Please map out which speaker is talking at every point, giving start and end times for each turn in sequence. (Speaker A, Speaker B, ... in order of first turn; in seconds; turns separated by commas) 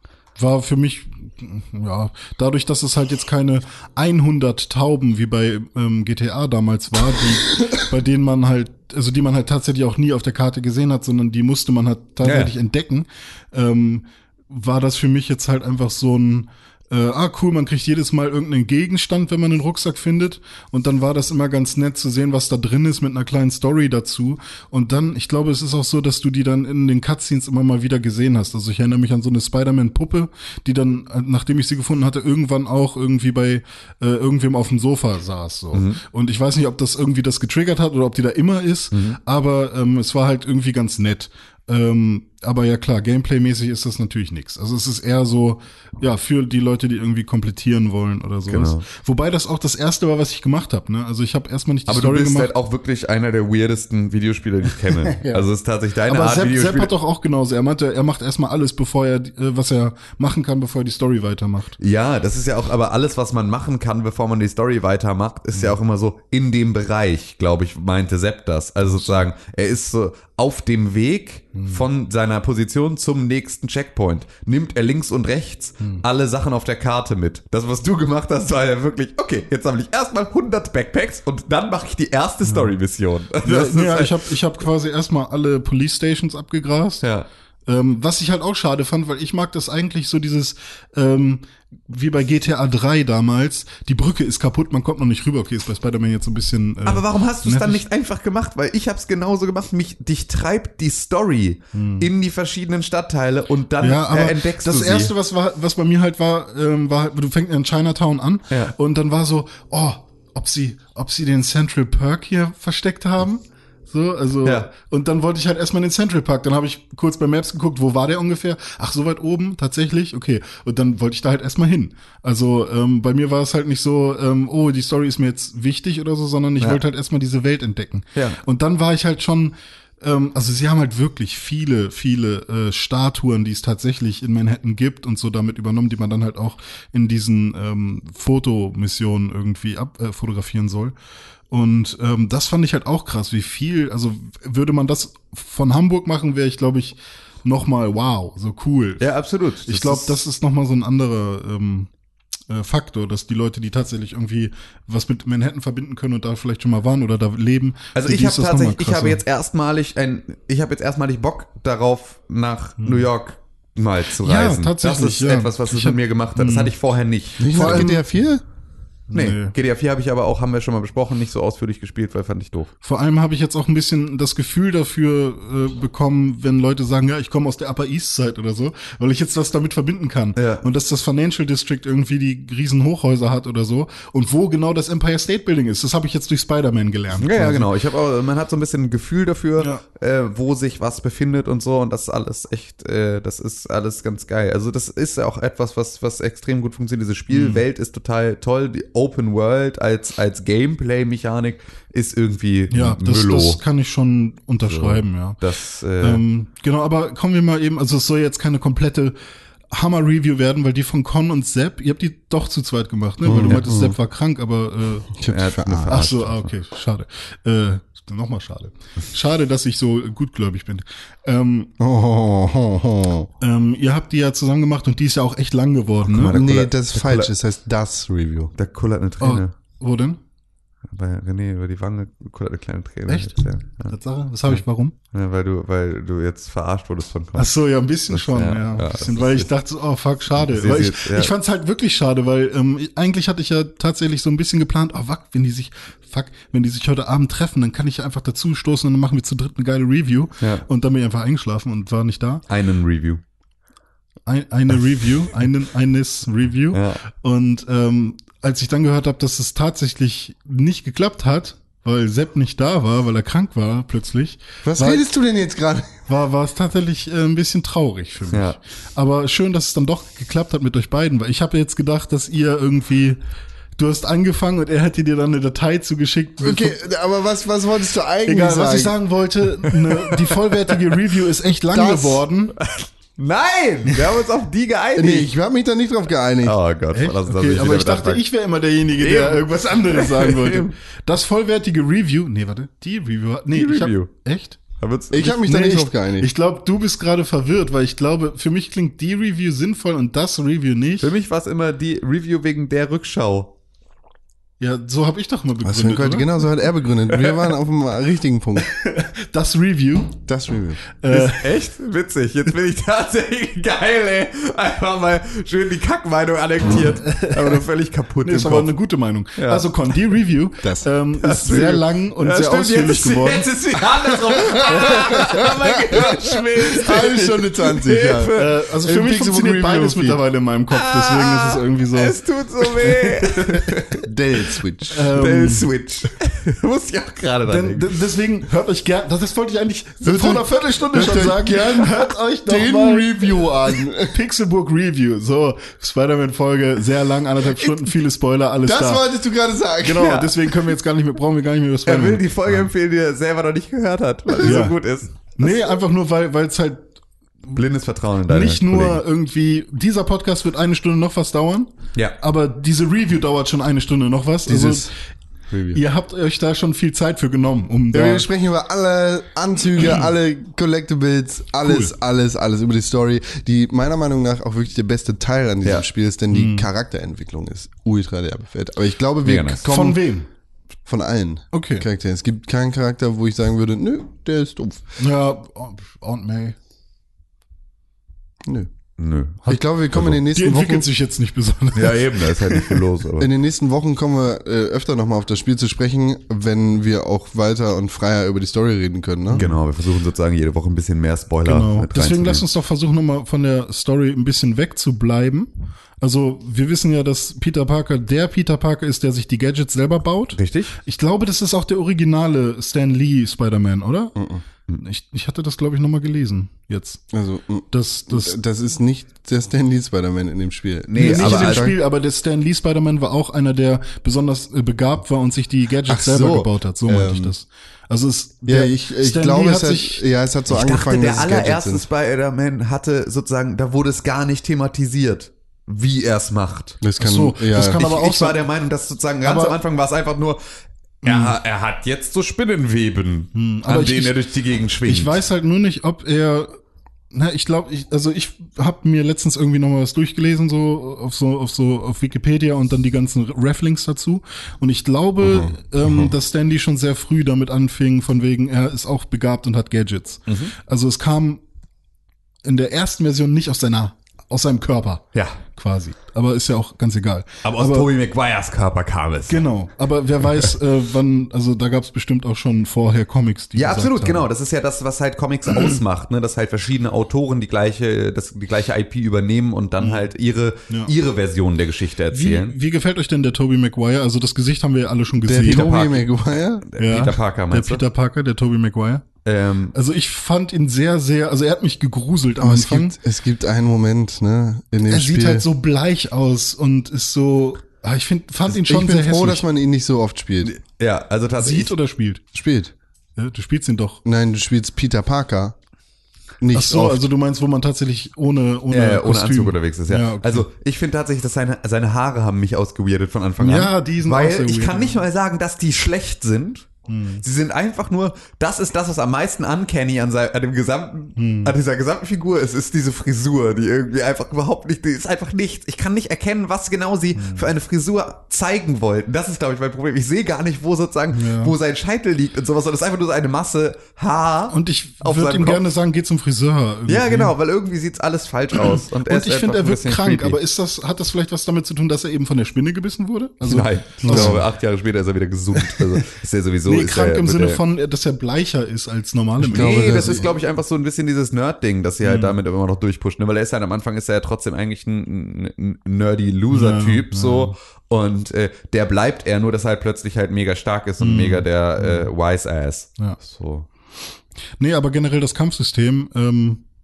Speaker A: 0.4-52.5, Speaker B: 12.2-12.5, Speaker B: 35.7-36.0, Speaker B: 38.9-39.2, Speaker B: 48.5-48.9, Speaker B: 51.9-56.9, Speaker A: 55.1-55.5, Speaker A: 56.1-61.8, Speaker B: 61.8-84.3, Speaker A: 68.9-69.3, Speaker A: 71.5-71.8, Speaker A: 83.4-87.0, Speaker B: 87.0-87.3, Speaker A: 87.7-97.8, Speaker B: 96.8-105.1, Speaker A: 101.7-102.1, Speaker A: 103.8-140.9, Speaker B: 114.4-114.7, Speaker A: 141.5-149.1, Speaker B: 149.0-150.2, Speaker A: 149.7-151.9, Speaker A: 152.5-159.2, Speaker B: 157.9-167.9, Speaker A: 162.8-163.1, Speaker A: 164.2-166.7, Speaker C: 167.4-168.4, Speaker A: 167.5-168.0, Speaker A: 169.1-169.6, Speaker B: 169.1-172.7, Speaker A: 172.8-187.7, Speaker B: 180.4-180.7, Speaker B: 187.1-203.6, Speaker A: 189.6-189.8, Speaker A: 197.3-197.6, Speaker A: 202.7-205.4, Speaker B: 204.6-206.2, Speaker A: 206.0-209.2, Speaker A: 209.7-215.1, Speaker C: 213.2-214.0, Speaker C: 215.2-216.0, Speaker B: 215.3-216.5, Speaker A: 215.9-221.7, Speaker C: 221.8-223.3, Speaker A: 223.4-226.4, Speaker B: 226.1-227.3, Speaker C: 226.3-228.5, Speaker B: 228.6-229.5, Speaker A: 229.2-230.2, Speaker B: 230.9-233.9, Speaker A: 233.1-234.9, Speaker B: 234.5-237.5, Speaker A: 237.3-252.4, Speaker B: 238.1-239.5, Speaker B: 240.4-241.3, Speaker B: 250.4-250.7, Speaker B: 252.5-253.2, Speaker A: 254.3-265.0, Speaker B: 256.7-257.0, Speaker C: 264.6-266.1, Speaker A: 266.1-273.2, Speaker B: 268.3-268.6, Speaker A: 273.8-276.8, Speaker C: 276.4-278.9, Speaker A: 278.3-282.6, Speaker B: 279.9-281.0, Speaker C: 281.7-282.2, Speaker B: 282.6-285.3, Speaker C: 285.0-286.6, Speaker B: 286.4-288.2, Speaker A: 286.9-294.6, Speaker B: 289.0-290.7, Speaker B: 293.5-294.1, Speaker B: 294.8-295.3, Speaker C: 295.1-296.3, Speaker A: 295.2-301.1, Speaker B: 301.0-303.5, Speaker A: 304.6-306.4, Speaker C: 305.6-308.7, Speaker A: 308.6-310.2, Speaker C: 310.3-310.8, Speaker A: 311.0-311.5, Speaker B: 311.1-318.7, Speaker A: 317.0-317.6, Speaker A: 318.2-323.8, Speaker B: 319.4-319.6, Speaker B: 321.2-328.5, Speaker C: 324.4-326.1, Speaker A: 324.7-326.1, Speaker C: 326.7-330.2, Speaker A: 328.3-333.7, Speaker B: 330.7-334.1, Speaker C: 333.9-335.1, Speaker A: 334.9-335.7, Speaker B: 335.1-338.0, Speaker A: 337.4-349.1, Speaker C: 340.0-344.2, Speaker C: 348.6-350.2, Speaker A: 349.8-352.7, Speaker B: 350.0-350.3, Speaker B: 351.9-355.6, Speaker A: 354.4-354.8, Speaker A: 355.4-356.9, Speaker B: 357.5-359.0, Speaker A: 358.3-364.9, Speaker C: 364.5-364.9, Speaker B: 365.5-365.8, Speaker A: 365.7-368.3, Speaker C: 367.9-380.0, Speaker A: 371.6-371.9, Speaker A: 376.3-376.7, Speaker B: 379.2-379.6, Speaker A: 379.6-380.3, Speaker C: 380.9-384.9, Speaker A: 381.5-381.9, Speaker A: 385.0-386.6, Speaker B: 389.0-390.2, Speaker C: 389.5-390.9, Speaker A: 390.2-392.8, Speaker B: 391.8-393.3, Speaker C: 393.2-399.4, Speaker A: 399.3-399.6, Speaker B: 399.3-402.4, Speaker A: 401.4-405.5, Speaker A: 406.0-414.1, Speaker B: 410.3-410.8, Speaker C: 414.2-414.4, Speaker A: 414.7-417.0, Speaker C: 417.1-421.8, Speaker A: 417.7-418.4, Speaker B: 420.9-421.7, Speaker A: 421.0-430.0, Speaker C: 425.9-427.3, Speaker C: 428.5-431.8, Speaker B: 430.5-436.8, Speaker C: 436.8-437.9, Speaker A: 437.0-438.4, Speaker B: 437.7-440.4, Speaker A: 439.2-439.6, Speaker A: 441.0-441.4, Speaker B: 441.0-445.2, Speaker A: 443.3-444.2, Speaker A: 444.8-446.5, Speaker A: 447.1-461.4, Speaker C: 455.2-456.1, Speaker B: 460.3-460.5, Speaker A: 462.4-467.9, Speaker B: 465.1-465.4, Speaker B: 467.4-469.5, Speaker A: 469.3-474.3, Speaker B: 473.6-482.6, Speaker A: 479.8-480.1, Speaker A: 482.1-485.9, Speaker C: 485.2-486.7, Speaker B: 485.4-486.1, Speaker B: 486.7-487.8, Speaker A: 486.8-489.1, Speaker B: 489.2-489.7, Speaker A: 489.7-493.0, Speaker C: 492.4-495.5, Speaker A: 494.9-499.4, Speaker C: 498.5-500.5, Speaker B: 500.4-501.7, Speaker A: 501.4-502.2, Speaker C: 502.3-502.7, Speaker A: 503.2-504.0, Speaker C: 504.1-505.6, Speaker C: 506.4-507.0, Speaker A: 506.5-510.5, Speaker B: 508.7-516.7, Speaker A: 513.4-515.0, Speaker A: 516.9-517.2, Speaker B: 517.2-535.7, Speaker A: 521.2-521.5, Speaker A: 527.1-527.5, Speaker A: 531.1-531.5, Speaker A: 534.5-537.3, Speaker B: 536.9-540.4, Speaker A: 538.6-544.4, Speaker B: 543.4-547.6, Speaker C: 544.1-544.4, Speaker A: 545.5-545.9, Speaker A: 546.6-550.1, Speaker C: 549.4-550.3, Speaker B: 549.5-563.7, Speaker A: 552.0-552.4, Speaker A: 556.5-557.5, Speaker A: 561.0-562.1, Speaker A: 564.6-566.6